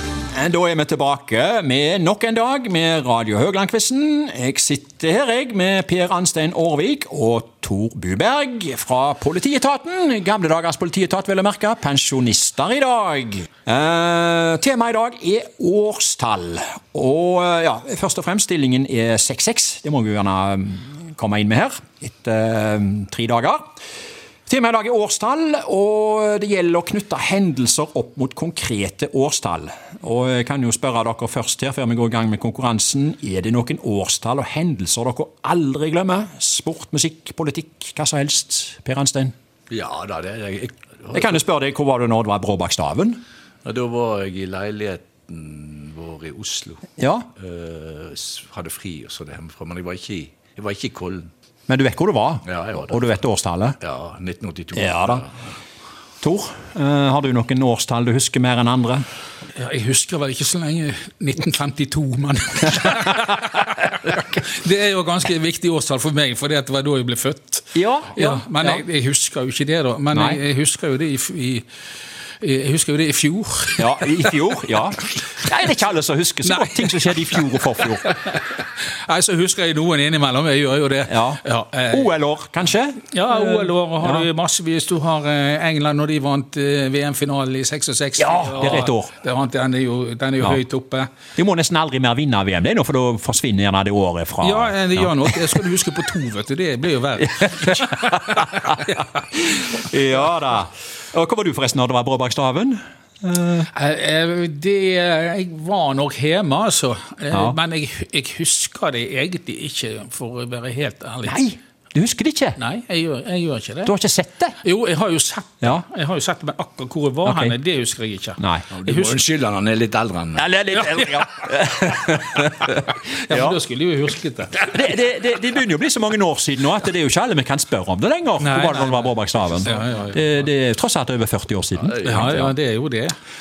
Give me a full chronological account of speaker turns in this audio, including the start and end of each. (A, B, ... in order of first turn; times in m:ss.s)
0:00.3-0:23.6 A
0:24.5-0:39.3 A
0:39.7-0:41.4 B
0:41.1-0:43.2 A
0:43.6-0:51.3 B
0:47.0-0:47.3 A
0:51.7-0:53.8 A
0:52.5-0:53.0 B
0:53.8-0:55.3 B
0:54.7-0:55.2 A
0:56.2-0:59.0 A
0:59.6-1:11.7 C
1:07.8-1:08.8 A
1:10.1-1:10.4 A
1:12.4-1:14.6 C
1:13.8-1:18.1 A
1:16.4-1:22.1 C
1:21.1-1:24.2 A
1:23.1-1:31.1 C
1:28.2-1:29.1 A
1:31.4-1:35.5 A
1:34.4-1:39.0 C
1:37.4-1:38.8 A
1:39.5-1:43.7 A
1:43.7-1:51.4 C
1:51.3-1:52.6 A
1:52.6-1:53.9 C
1:53.8-1:54.6 A
1:54.6-1:59.2 C
1:57.2-1:57.6 A
1:58.4-1:58.7 A
1:58.7-2:00.5 B
2:00.4-2:03.6 A
2:00.8-2:01.1 C
2:03.0-2:04.6 C
2:04.5-2:12.5 A
2:08.4-2:10.2 C
2:11.8-2:12.5 B
2:12.0-2:13.2 C